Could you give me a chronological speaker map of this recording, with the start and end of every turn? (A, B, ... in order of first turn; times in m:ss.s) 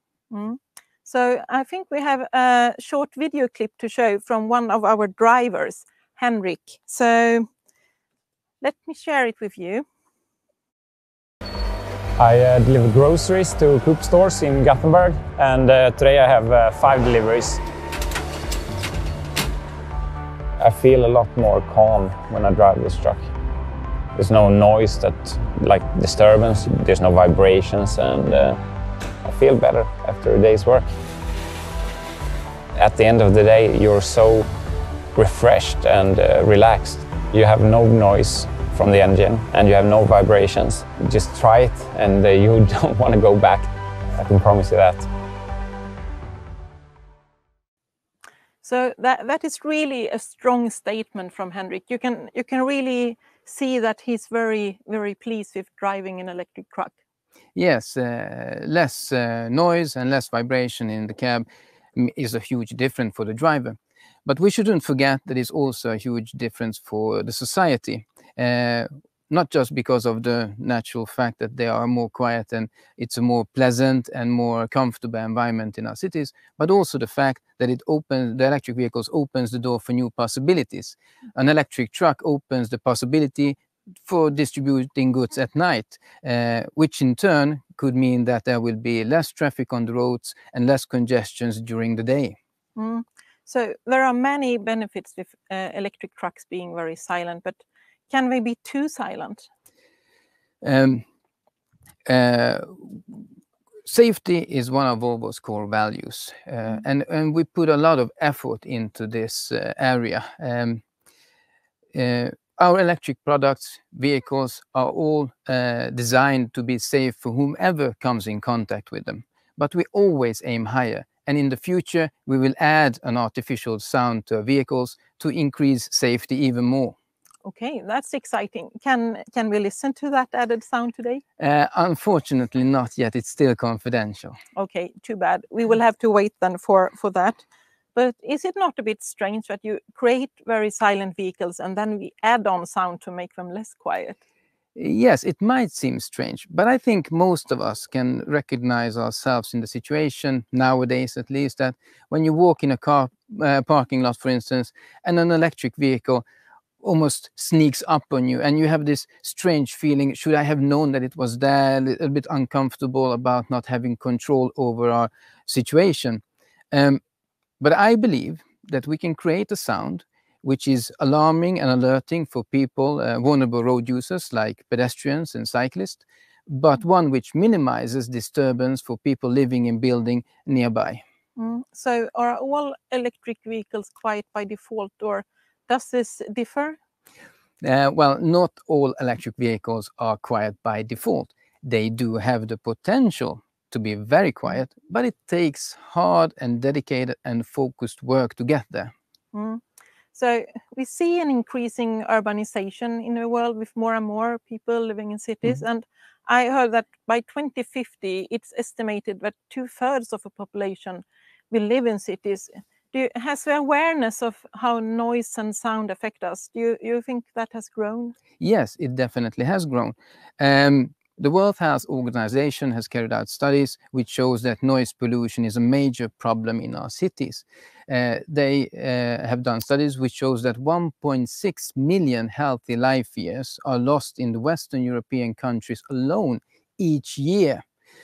0:00.3-0:07.5 A
0:08.6-0:09.9 A
0:12.2-0:17.6 B
0:20.6-0:23.3 B
0:24.2-0:28.6 B
0:29.2-0:30.9 B
0:32.8-0:34.5 B
0:35.2-0:45.1 B
0:48.6-0:57.0 A
0:57.6-1:32.4 C
1:32.8-1:39.5 A
1:40.6-1:41.0 C
1:42.1-1:43.3 C
1:43.8-1:50.8 C
1:51.9-2:07.0 C
2:07.4-2:11.2 A
2:11.4-2:14.4 C
2:14.6-2:17.4 A
2:18.0-2:24.2 A
2:24.8-2:36.2 C
2:36.8-2:47.0 C
2:47.6-3:01.0 C
3:01.4-3:06.8 A
3:07.6-3:18.9 C
3:19.3-3:19.6 A
3:20.1-3:38.2 A
3:38.4-3:57.6 C